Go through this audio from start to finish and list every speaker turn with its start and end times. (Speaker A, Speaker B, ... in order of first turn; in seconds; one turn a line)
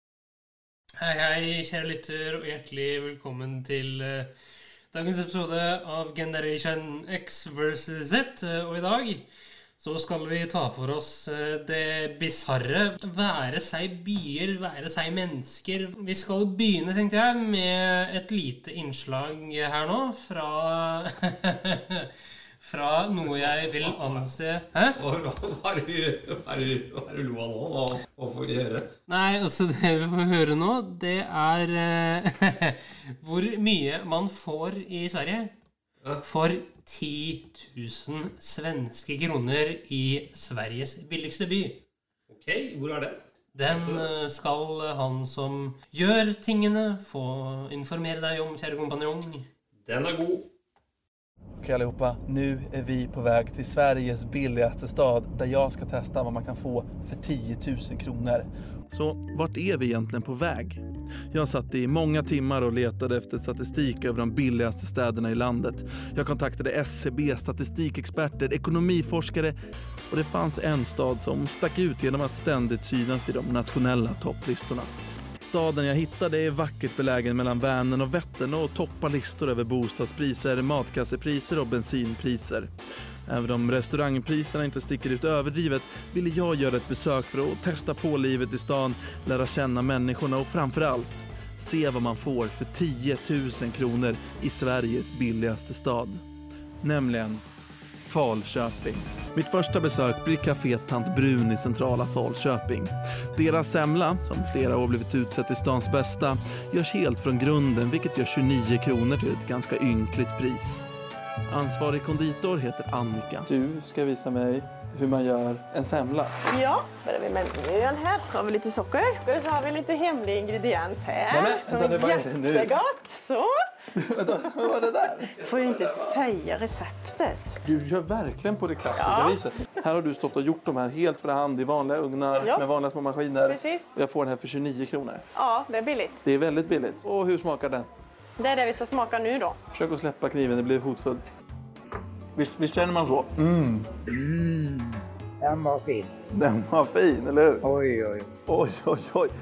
Speaker A: 1.0-4.3
Speaker A: 4.9-9.3
Speaker A: 9.8-25.0
Speaker B: 23.2-24.4
Speaker B: 24.9-28.9
Speaker A: 29.1-35.5
Speaker A: 36.2-41.8
Speaker B: 42.3-44.1
Speaker A: 43.5-49.5
Speaker B: 49.9-50.4
Speaker C: 51.6-69.6
Speaker C: 70.1-82.7
Speaker C: 83.3-96.2
Speaker C: 96.8-97.4
Speaker C: 98.0-110.8
Speaker C: 111.5-116.3
Speaker D: 116.5-123.5
Speaker C: 121.3-122.8
Speaker C: 124.0-125.8
Speaker D: 125.4-127.5
Speaker C: 127.6-135.2
Speaker D: 129.0-129.4
Speaker D: 133.4-133.9
Speaker D: 135.3-136.2
Speaker C: 136.2-137.9
Speaker D: 138.4-139.6
Speaker C: 139.7-141.3
Speaker C: 142.3-143.9
Speaker E: 144.1-146.1
Speaker C: 146.3-147.7
Speaker E: 147.6-148.4
Speaker C: 148.5-149.3